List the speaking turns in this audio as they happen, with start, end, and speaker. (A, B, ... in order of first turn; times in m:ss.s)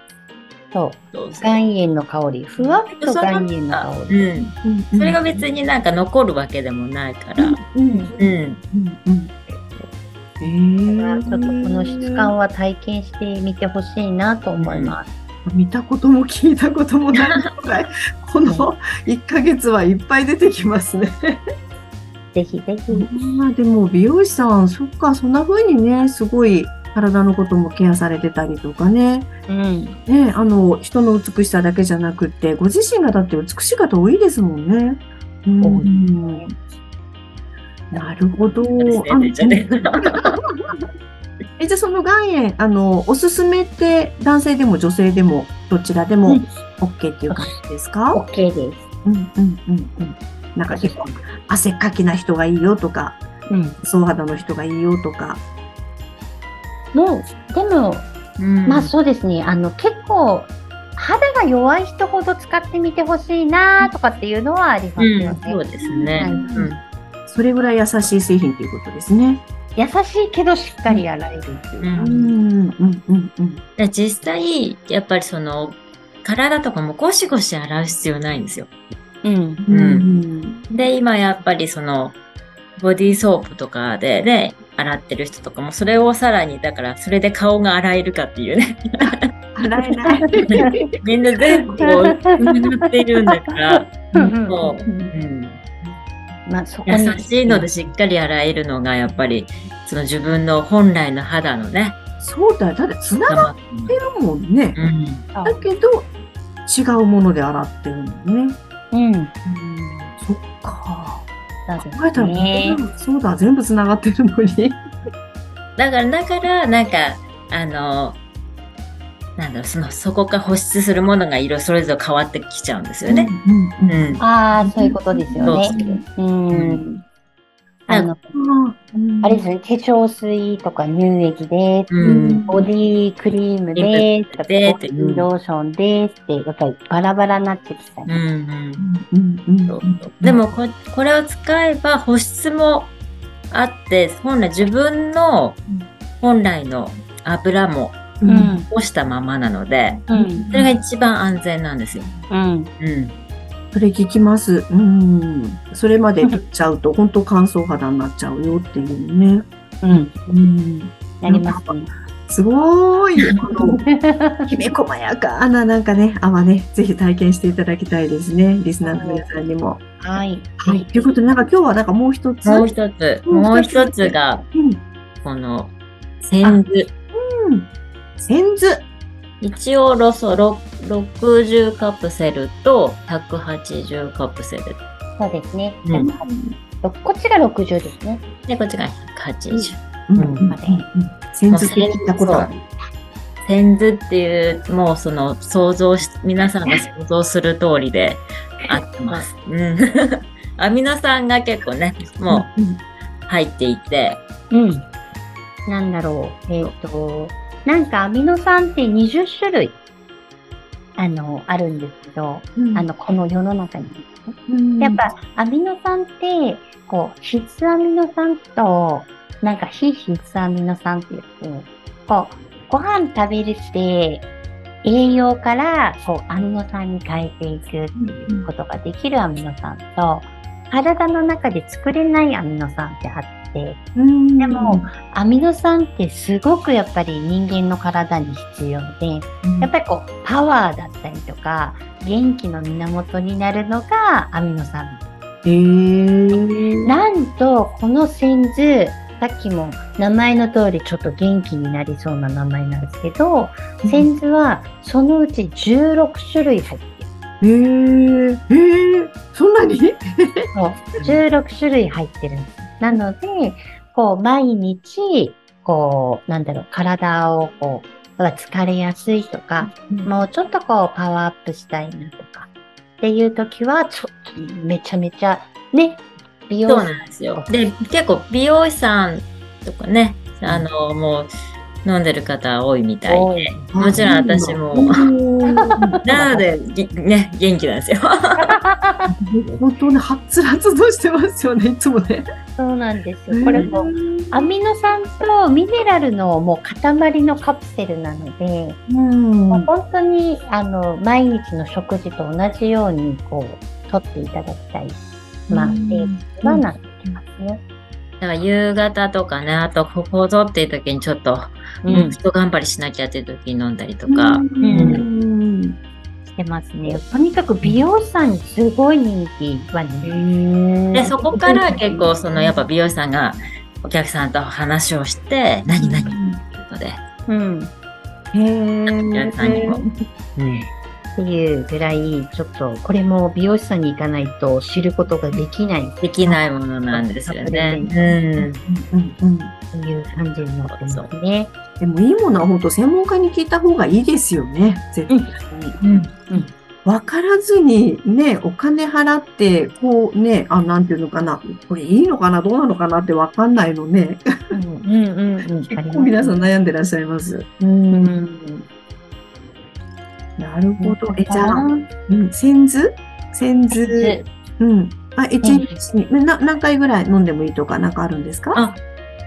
0:00.7-0:04.3 A
0:01.1-0:01.6 B
0:02.9-0:07.6 B
0:04.6-0:05.2 C
0:07.4-0:08.2 C
0:07.8-0:08.2 A
0:08.2-0:08.6 B
0:08.7-0:09.3 C
0:10.4-0:12.3 C
0:10.8-0:15.1 A
0:14.6-0:15.0 B
0:15.4-0:21.4 C
0:18.4-0:18.7 A
0:22.3-0:23.1 A
0:22.9-0:29.3 C
0:29.5-0:30.0 A
0:30.1-0:36.5 C
0:35.6-0:36.4 A
0:37.9-0:40.8 C
0:38.7-0:40.3 B
0:41.6-0:48.2 C
0:47.3-0:47.6 A
0:48.1-0:48.8 A
0:49.0-0:53.2 C
0:50.7-0:51.2 A
0:53.5-0:53.8 A
0:53.8-0:55.4 C
0:56.9-0:58.1 A
0:58.4-0:58.9 B
0:58.6-1:05.6 A
1:05.0-1:06.8 B
1:05.8-1:06.7 C
1:06.2-1:06.7 A
1:07.3-1:09.4 C
1:09.8-1:12.0 A
1:11.8-1:12.3 B
1:12.0-1:13.6 C
1:13.8-1:18.7 B
1:19.2-1:19.6 A
1:19.6-1:20.6 C
1:19.7-1:20.1 B
1:20.7-1:22.2 B
1:22.8-1:29.1 B
1:29.1-1:30.9 C
1:30.0-1:30.9 A
1:31.0-1:33.9 B
1:31.8-1:32.8 A
1:34.1-1:34.7 A
1:34.4-1:35.6 B
1:36.4-1:37.7 A
1:36.8-1:42.0 B
1:42.2-1:44.8 C
1:43.2-1:44.0 B
1:44.7-1:45.3 B
1:45.3-1:45.6 A
1:45.4-1:46.1 C
1:46.6-1:48.6 C
1:48.9-1:49.3 A
1:49.4-1:51.3 C
1:51.7-1:52.8 A
1:51.8-1:54.8 C
1:55.8-1:58.2 B
1:59.4-2:03.3 B
2:03.0-2:06.0 C
2:03.8-2:04.2 B
2:04.2-2:07.0 A
2:05.4-2:06.8 B
2:07.9-2:08.2 A
2:08.3-2:09.4 C
2:09.2-2:18.2 A
2:11.9-2:12.7 B
2:12.0-2:12.6 C
2:13.7-2:15.3 B
2:18.0-2:18.8 B
2:18.8-2:20.4 C
2:19.7-2:22.9 B
2:23.5-2:25.6 B
2:26.2-2:32.1 B
2:28.2-2:28.6 C
2:28.2-2:28.7 A
2:30.1-2:30.6 A
2:30.1-2:30.8 C
2:32.3-2:32.7 A
2:32.8-2:33.1 B
2:33.7-2:39.4 C
2:39.8-2:40.1 A
2:40.2-2:41.7 C
2:41.2-2:41.9 A
2:42.3-2:43.8 C
2:43.8-2:44.5 A
2:44.4-2:49.8 C
2:48.8-2:49.3 A
2:50.0-2:51.2 A
2:50.6-2:52.7 C
2:52.4-2:54.4 B
2:53.3-2:54.8 C
2:55.2-2:55.7 B
2:56.2-2:56.9 B
2:57.1-2:58.8 C
2:59.4-3:04.8 B
3:05.2-3:08.2 A
3:06.0-3:06.6 C
3:08.5-3:10.4 B
3:09.5-3:12.6 C
3:10.5-3:10.9 A
3:11.5-3:12.5 B
3:12.2-3:12.5 A
3:13.4-3:22.5 B
3:22.3-3:22.8 C
3:23.3-3:24.2 B
3:24.5-3:24.8 A
3:25.7-3:29.8 A
3:31.0-3:44.2 A
3:32.6-3:32.9 C
3:34.5-3:35.0 C
3:44.8-3:53.8 A
3:48.0-3:48.5 C
3:53.9-3:54.9 C
3:54.4-4:05.0 A
3:59.4-3:59.7 C
4:05.4-4:06.9 C
4:06.8-4:17.1 A
4:13.8-4:14.1 C
4:17.4-4:21.2 C
4:20.5-4:32.5 A
4:29.6-4:30.1 C
4:33.0-4:37.5 A
4:36.6-4:41.3 B
4:41.8-4:45.1 B
4:43.0-4:44.1 A
4:43.7-4:46.4 C
4:45.4-4:46.4 A
4:46.0-4:48.5 B
4:48.4-4:49.1 A
4:49.2-4:52.3 C
4:52.6-4:58.8 A
4:53.3-4:54.5 C
4:58.9-4:59.7 C
4:59.5-5:05.0 A
5:05.5-5:07.1 C
5:05.5-5:07.6 A
5:08.2-5:15.0 B
5:11.8-5:12.2 A
5:14.0-5:15.8 C
5:14.6-5:15.0 A
5:16.3-5:20.2 A
5:20.0-5:22.6 C
5:20.9-5:27.0 B
5:25.8-5:26.4 C
5:27.3-5:27.7 A
5:28.3-5:29.9 C
5:28.8-5:29.8 B
5:30.4-5:30.7 B
5:31.2-5:36.4 A
5:36.0-5:38.6 B
5:36.9-5:38.2 A
5:38.6-5:39.5 C
5:39.7-5:41.5 A
5:40.7-5:41.1 B
5:41.8-5:45.8 C
5:45.1-5:45.4 A
5:45.8-5:46.1 B
5:46.8-5:54.3 C
5:54.5-5:56.5 A
5:55.7-5:58.2 C
5:57.9-5:58.7 A
6:00.4-6:08.6 C
6:00.8-6:01.8 A
6:03.7-6:04.3 A
6:05.4-6:05.8 A
6:08.5-6:08.8 B